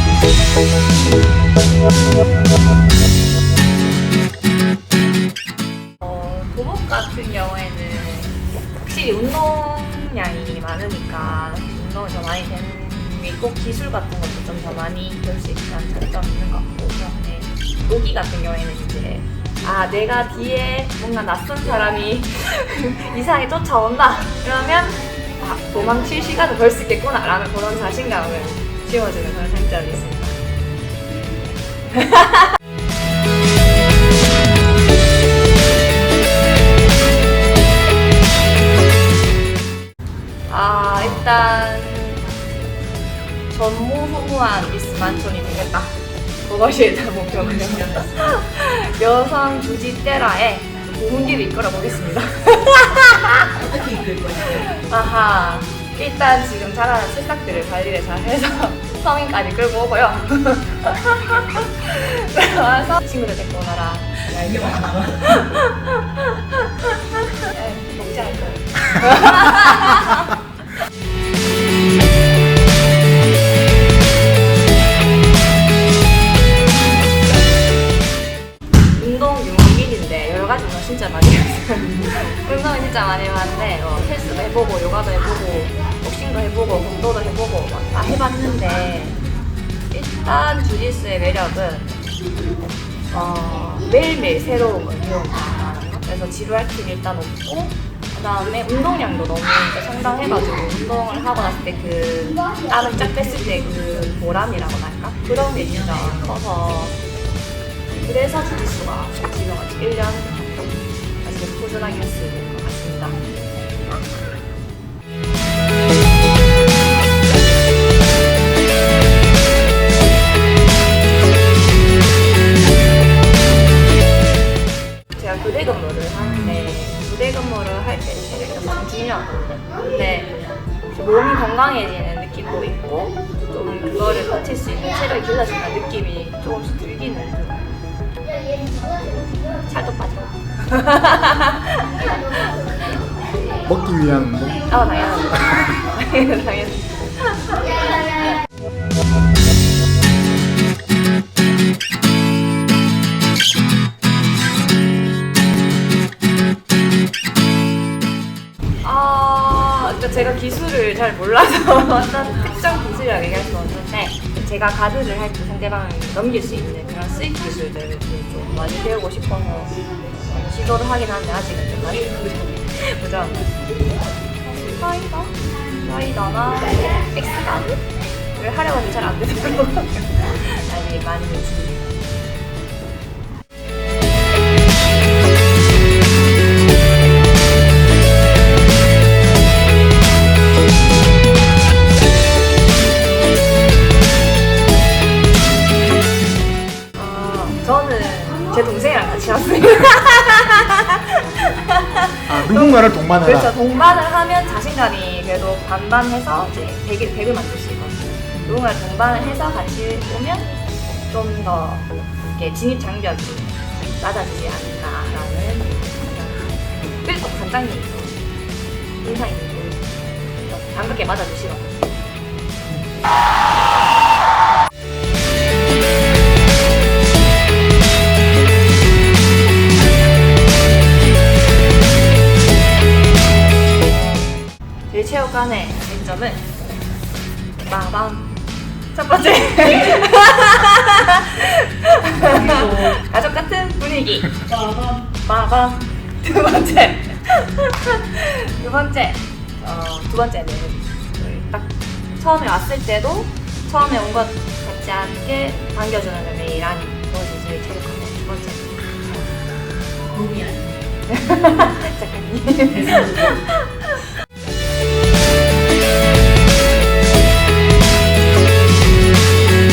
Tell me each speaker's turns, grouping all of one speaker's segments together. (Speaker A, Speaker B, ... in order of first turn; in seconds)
Speaker A: 6.0-30.4, 31.9-32.5, 40.5-42.3, 43.5-53.6, 54.4-70.4, 78.9-89.2, 89.9-92.0, 93.1-107.0, 107.9-110.7, 111.2-113.2, 125.1-137.8, 139.6-142.7, 144.7-148.3, 158.8-173.4, 174.5-182.0, 196.9-210.5, 211.1-218.2, 219.0-221.9, 234.9-236.5, 237.6-238.3, 238.9-244.4, 245.1-258.9, 261.1-264.1
Speaker B: 47.4-48.3, 53.6-54.7, 64.4-65.4, 105.6-106.3, 242.2-242.9, 244.5-245.0, 260.1-260.6, 262.7-263.4
Speaker C: 143.6-144.7, 202.3-203.5